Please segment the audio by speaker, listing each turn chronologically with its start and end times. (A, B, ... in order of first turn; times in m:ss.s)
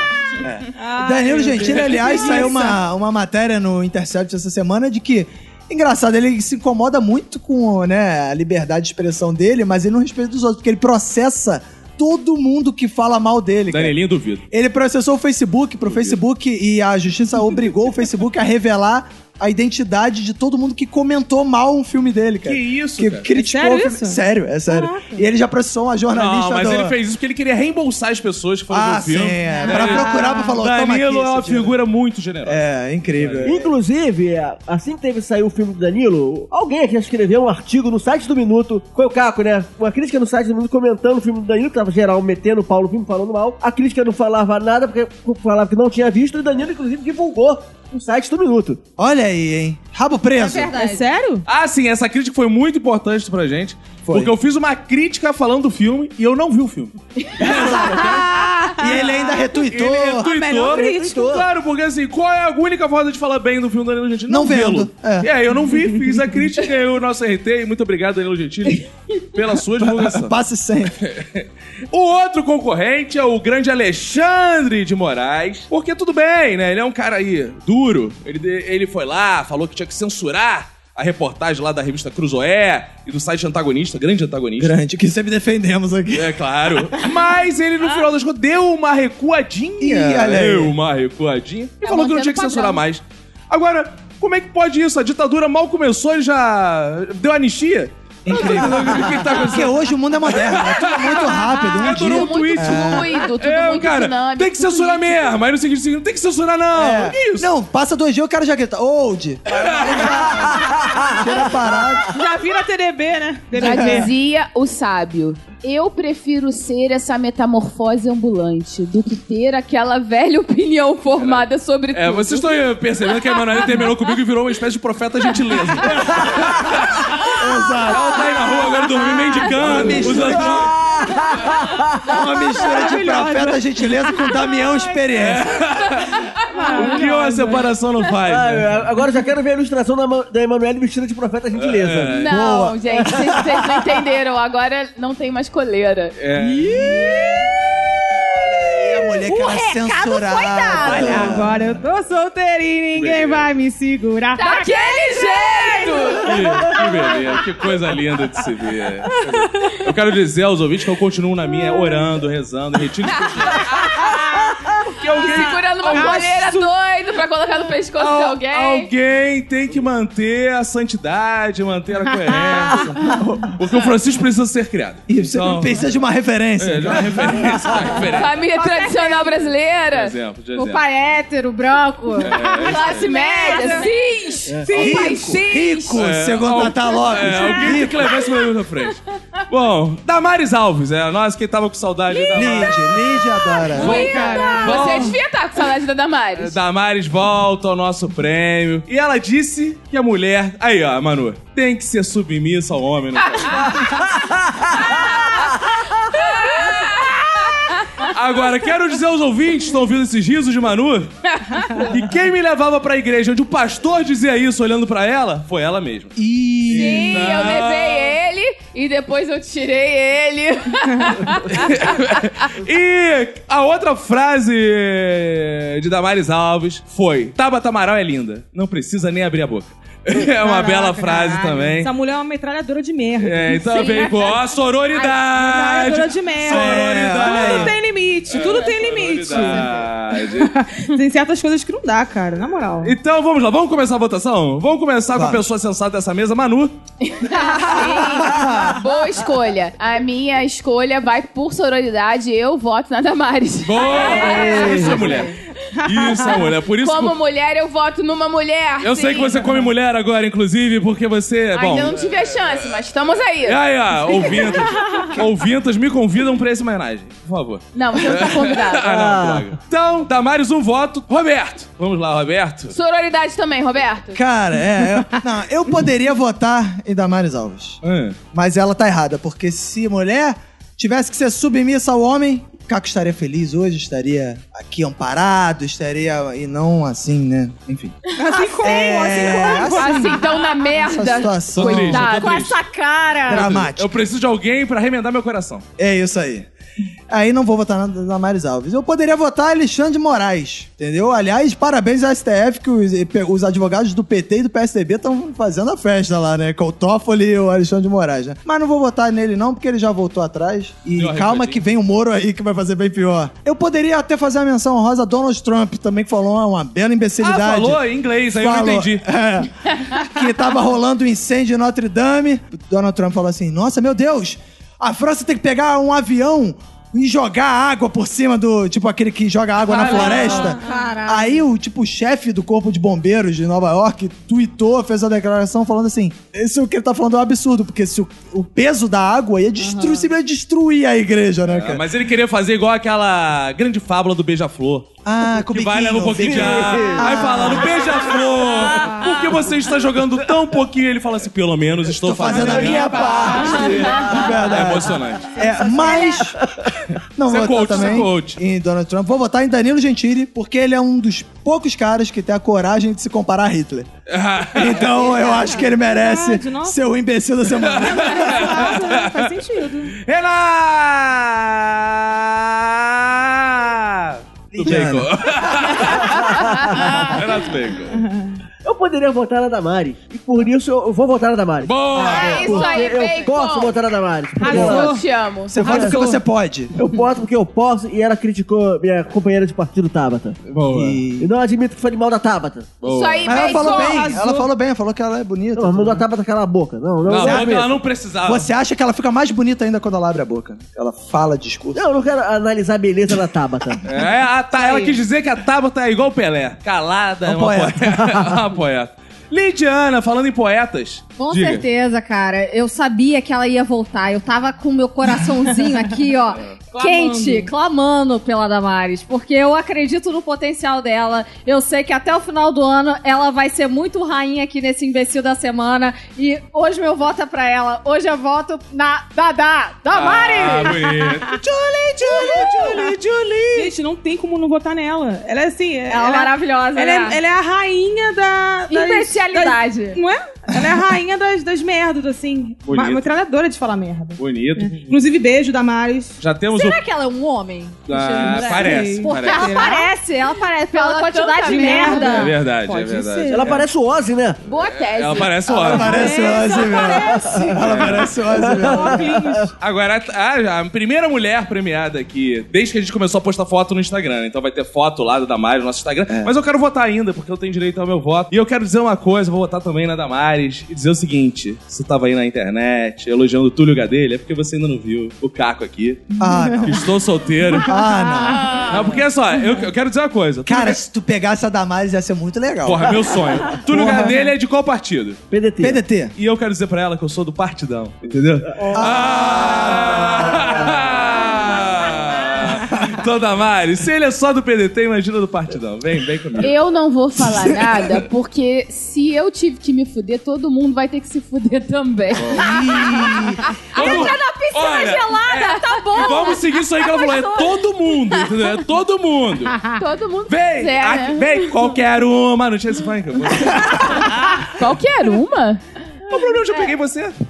0:00.4-0:14.0 A
0:00.8-0:02.8 B
0:01.6-0:02.6 C
0:13.7-0:14.4 C
0:14.5-0:27.0 A
0:15.9-0:16.2 C
0:22.4-0:23.3 C
0:23.4-0:25.3 B
0:26.1-0:32.6 C
0:28.7-0:31.8 A
0:29.6-0:30.1 D
0:29.7-0:30.6 B
0:32.4-0:33.7 A
0:33.1-0:33.5 C
0:33.4-0:48.8 E
0:49.0-0:50.7 A
0:50.4-0:51.0 D
0:50.7-0:51.4 B
0:51.5-0:58.3 C
0:57.4-0:58.2 A
0:57.6-0:59.4 B
0:58.8-1:00.3 A
0:59.7-1:10.3 C
1:00.1-1:01.3 B
1:00.6-1:01.5 E
1:04.3-1:05.3 A
1:09.8-1:11.0 A
1:11.0-1:24.8 C
1:24.6-1:27.1 A
1:26.1-1:47.5 C
1:29.8-1:30.7 A
1:31.8-1:32.8 F
1:38.2-1:43.1 A
1:41.7-1:45.4 F
1:46.7-1:52.2 A
1:49.5-1:50.5 C
1:50.5-1:51.2 E
1:52.1-1:54.1 B
1:53.6-2:02.6 F
1:53.6-1:54.1 A
2:01.2-2:07.4 C
2:05.8-2:06.2 A
2:07.4-2:08.2 A
2:07.9-2:10.7 C
2:09.5-2:10.8 A
2:09.6-2:12.2 E
2:12.1-2:15.6 A
2:12.5-2:14.4 B
2:15.2-2:18.9 C
2:16.4-2:17.8 B
2:18.3-2:22.2 E
2:21.5-2:22.3 C
2:22.1-2:26.2 F
2:22.3-2:23.4 A
2:22.9-2:23.5 E
2:26.2-2:27.0 C
2:26.4-2:27.5 B
2:28.4-2:31.5 A
2:29.2-2:31.4 D
2:30.9-2:34.8 B
2:30.9-2:31.4 C
2:32.9-2:33.5 C
2:34.4-2:36.4 F
2:34.8-2:36.3 D
2:35.8-2:36.8 B
2:36.2-2:43.9 C
2:39.3-2:39.7 B
2:43.7-2:44.2 F
2:44.1-2:44.5 B
2:44.9-2:46.2 C
2:45.0-2:46.7 B
2:45.1-2:48.9 F
2:48.0-2:55.8 C
2:55.1-2:57.6 A
2:56.6-2:58.4 C
2:56.9-2:58.0 E
2:58.1-3:00.1 F
2:58.6-2:59.5 B
2:59.9-3:00.8 C
3:00.6-3:03.9 D
3:02.2-3:03.1 C
3:02.6-3:06.0 F
3:03.1-3:03.9 B
3:04.5-3:05.1 E
3:04.6-3:05.4 B
3:04.7-3:08.1 A
3:05.9-3:13.0 C
3:07.2-3:08.1 F
3:12.1-3:12.7 F
3:12.3-3:14.0 A
3:13.4-3:16.6 F
3:13.7-3:15.1 B
3:13.9-3:14.7 D
3:14.6-3:15.2 C
3:16.4-3:23.8 C
3:23.4-3:24.0 F
3:23.6-3:25.8 E
3:24.7-3:28.1 F
3:28.0-3:31.1 C
3:31.4-3:31.9 F
3:31.8-3:36.2 C
3:36.2-3:37.5 A
3:36.7-3:38.2 C
3:36.7-3:42.2 F
3:41.5-3:51.9 C
3:50.4-3:54.0 B
3:53.2-3:57.7 C
3:53.7-3:54.6 F
3:54.9-4:03.0 B
3:56.5-3:57.8 A
3:58.3-4:00.5 C
4:02.8-4:06.8 C
4:05.1-4:05.5 A
4:07.0-4:15.3 F
4:08.1-4:08.8 A
4:13.6-4:17.2 C
4:14.2-4:15.2 E
4:15.8-4:16.4 B
4:16.8-4:19.6 F
4:18.8-4:22.8 C
4:21.5-4:24.6 F
4:23.4-4:32.8 C
4:27.7-4:28.9 F
4:28.8-4:29.5 E
4:32.7-4:34.2 F
4:34.1-4:37.8 A
4:37.8-4:38.2 C
4:38.3-4:48.0 A
4:48.1-4:50.7 B
4:48.6-4:50.2 A
4:49.8-4:52.4 F
4:50.8-4:52.2 A
4:51.6-4:52.6 C
4:51.9-4:53.6 D
4:53.3-4:53.9 A
4:53.3-4:55.6 C
4:55.8-4:56.5 A
4:57.1-5:41.8 A
5:11.0-5:11.6 C
5:17.2-5:19.0 C
5:29.7-5:30.5 C
5:29.8-5:31.4 D
5:29.8-5:30.8 B
5:39.6-5:40.0 D
5:41.5-5:55.4 C
5:45.0-5:47.8 A
5:46.2-5:47.5 E
5:48.2-5:49.2 E
5:51.9-5:56.4 A
5:52.3-5:54.1 B
5:55.7-5:56.2 D
5:56.2-5:56.7 E
5:57.2-6:03.9 A
5:57.2-5:58.4 C
6:04.1-6:05.0 C
6:04.5-6:08.6 A
6:04.9-6:06.8 B
6:07.5-6:09.4 C
6:07.8-6:10.0 B
6:09.9-6:18.1 C
6:14.6-6:15.7 A
6:15.8-6:17.2 E
6:16.4-6:16.8 F
6:18.0-6:18.3 B
6:18.6-6:24.9 E
6:21.6-6:22.6 C
6:22.0-6:23.8 F
6:22.1-6:23.1 D
6:24.4-6:25.0 B
6:24.5-6:24.9 A
6:24.5-6:25.6 F
6:25.5-6:26.7 A
6:25.6-6:26.0 E
6:25.7-6:26.1 B
6:26.7-6:30.4 E
6:30.5-6:31.0 C
6:30.7-6:31.3 A
6:31.2-6:32.8 E
6:32.8-6:33.5 C
6:32.8-6:34.1 F
6:33.2-6:36.0 A
6:33.4-6:34.5 B
6:35.6-6:37.7 E
6:37.0-6:38.5 C
6:37.2-6:41.8 A
6:41.8-6:43.8 E
6:43.8-6:51.6 C
6:44.6-6:44.9 B
6:47.2-6:48.2 A
6:51.2-7:11.2 D
6:55.2-6:55.8 B
6:56.7-6:57.5 B
7:09.9-7:13.7 C
7:12.1-7:12.7 D
7:12.1-7:12.8 B
7:13.5-7:26.2 B
7:15.9-7:17.2 D
7:18.7-7:20.0 D
7:22.7-7:23.1 C
7:24.2-7:25.0 C
7:26.2-7:26.8 C
7:26.5-7:32.4 D
7:27.9-7:29.7 C
7:28.1-7:29.9 B
7:30.7-7:32.2 F
7:31.4-7:33.6 B
7:32.0-7:33.6 C
7:33.3-7:34.4 E
7:34.4-7:36.1 F
7:34.7-7:36.1 C
7:35.5-7:39.1 A
7:35.8-7:37.3 D
7:35.8-7:39.5 B
7:37.0-7:39.5 E
7:37.6-7:38.1 C
7:39.6-7:56.1 C
7:46.1-7:46.3 A
7:56.2-7:56.7 B
7:56.2-7:56.9 A
7:56.6-7:57.8 C
7:57.6-7:58.6 B
7:57.6-7:58.8 A
7:58.6-8:00.8 C
8:00.4-8:04.1 A
8:02.6-8:05.2 C
8:05.3-8:05.8 E
8:05.6-8:06.1 A
8:06.2-8:16.6 C
8:08.5-8:08.9 E
8:08.7-8:10.7 A
8:16.4-8:24.1 F
8:22.2-8:22.5 C
8:22.3-8:24.1 A
8:23.7-8:27.6 D
8:23.8-8:29.6 C
8:25.4-8:26.4 F
8:29.7-8:31.6 F
8:30.3-8:34.5 C
8:34.4-8:35.6 F
8:36.1-8:37.2 C